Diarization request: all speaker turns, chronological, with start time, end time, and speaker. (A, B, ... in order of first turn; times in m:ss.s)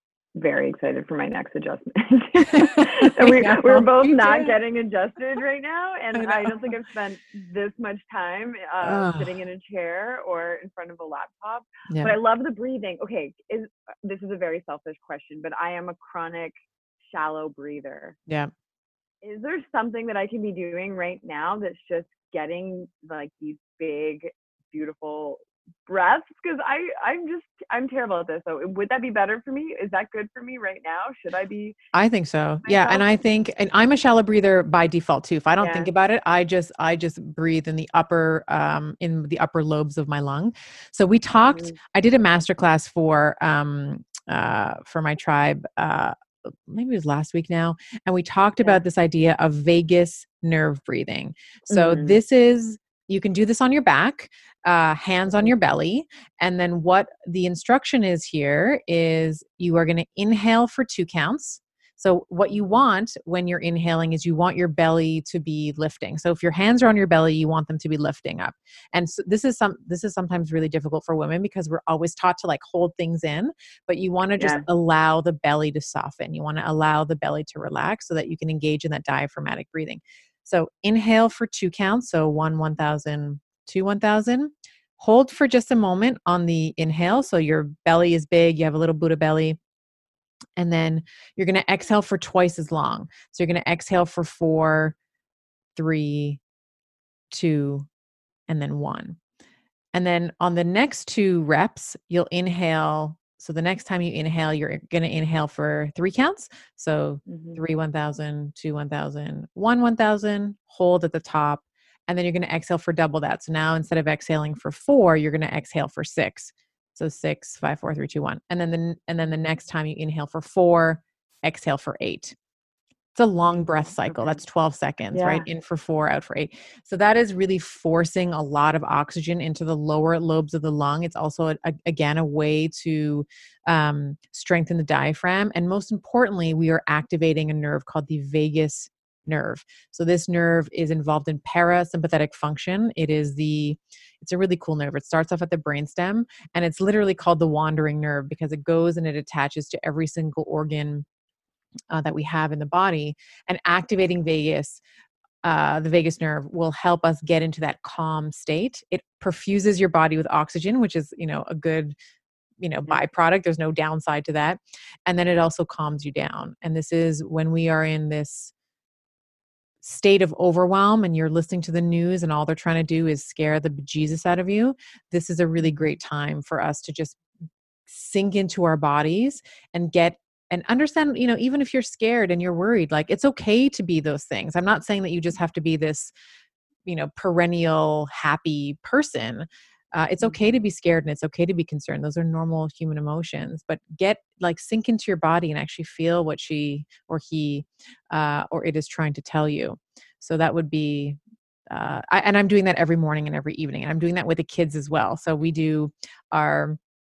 0:00.4-0:18.2 A
0:02.4-0:04.5 B
0:06.1-0:06.5 B
0:08.8-0:09.4 B
0:11.9-0:12.1 B
0:19.2-0:31.8 A
0:31.9-1:29.6 B
0:32.6-0:33.0 A
0:35.6-0:35.9 A
0:41.5-0:41.8 A
0:51.7-0:52.2 A
1:14.4-1:14.6 A
1:30.6-1:35.0 B
1:35.8-1:36.4 B
1:37.3-1:37.9 B
1:38.5-1:39.2 B
1:39.9-2:02.4 B
1:47.3-1:47.6 A
2:03.2-2:31.0 B
2:04.1-2:04.4 A
2:05.1-2:05.4 A
2:31.9-2:34.8 B
2:35.4-2:42.0 B
2:42.6-2:48.5 B
2:49.8-2:57.2 B
2:55.6-2:55.9 A
2:57.9-3:06.1 B
3:06.9-3:21.2 B
3:21.7-3:26.8 B